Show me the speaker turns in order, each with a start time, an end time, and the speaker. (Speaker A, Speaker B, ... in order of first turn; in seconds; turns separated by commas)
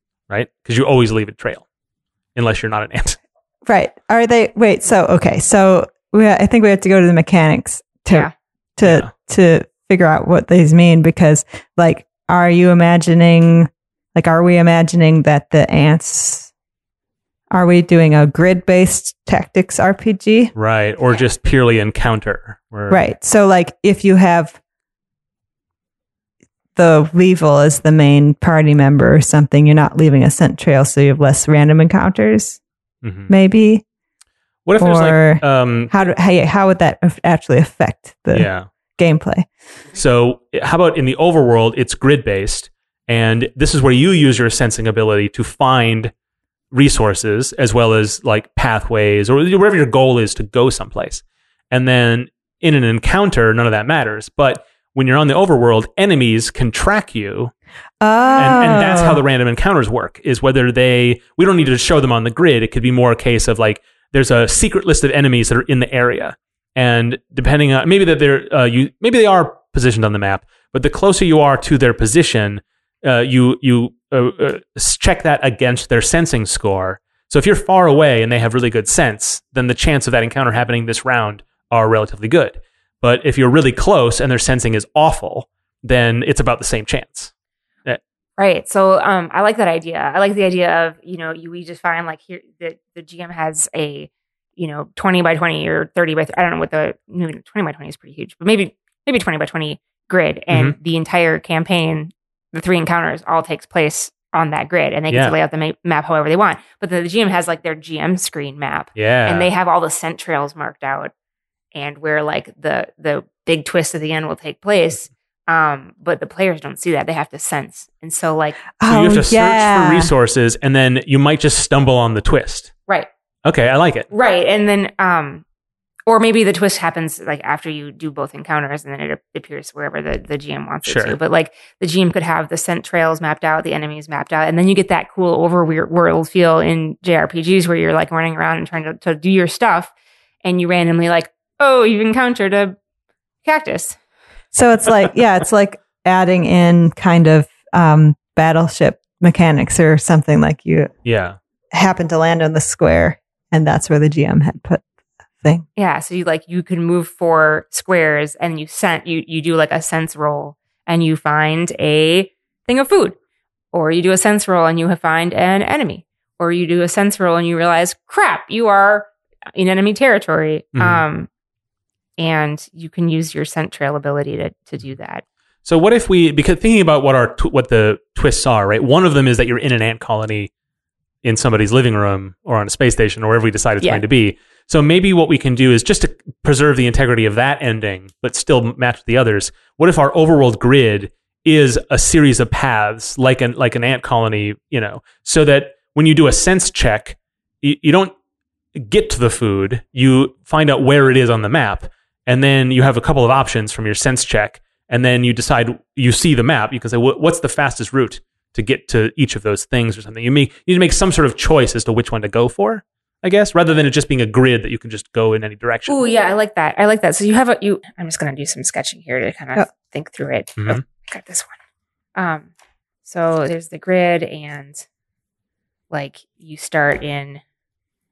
Speaker A: 0.3-1.6, Speaker A: 2.3-3.2, Speaker B: 3.6-16.5, Speaker A: 8.8-9.1, Speaker B: 17.5-20.5, Speaker A: 20.5-23.0, Speaker B: 22.9-24.6, Speaker B: 26.8-32.6, Speaker A: 33.0-33.3, Speaker B: 33.3-33.8, Speaker A: 34.6-36.0, Speaker B: 34.8-39.5, Speaker A: 38.3-38.7, Speaker A: 39.9-46.1, Speaker A: 46.7-57.5, Speaker B: 58.0-59.2, Speaker A: 58.4-87.3, Speaker C: 88.4-111.1, Speaker A: 100.5-100.8, Speaker A: 105.1-105.3, Speaker A: 109.0-109.5, Speaker C: 111.7-118.6, Speaker B: 118.8-120.1, Speaker A: 118.9-122.7, Speaker A: 123.4-124.1, Speaker C: 124.1-125.4, Speaker C: 126.1-139.9, Speaker A: 130.8-131.2, Speaker C: 140.4-142.8, Speaker C: 143.4-144.0, Speaker B: 144.5-150.9, Speaker A: 151.0-151.4, Speaker B: 151.7-154.8, Speaker C: 155.8-163.2, Speaker C: 163.7-171.3, Speaker A: 170.8-171.0, Speaker C: 172.2-175.2, Speaker A: 175.6-180.5, Speaker A: 181.2-198.1, Speaker A: 198.7-216.0, Speaker C: 215.9-221.5, Speaker C: 222.2-222.5, Speaker C: 223.0-224.8, Speaker C: 225.9-227.4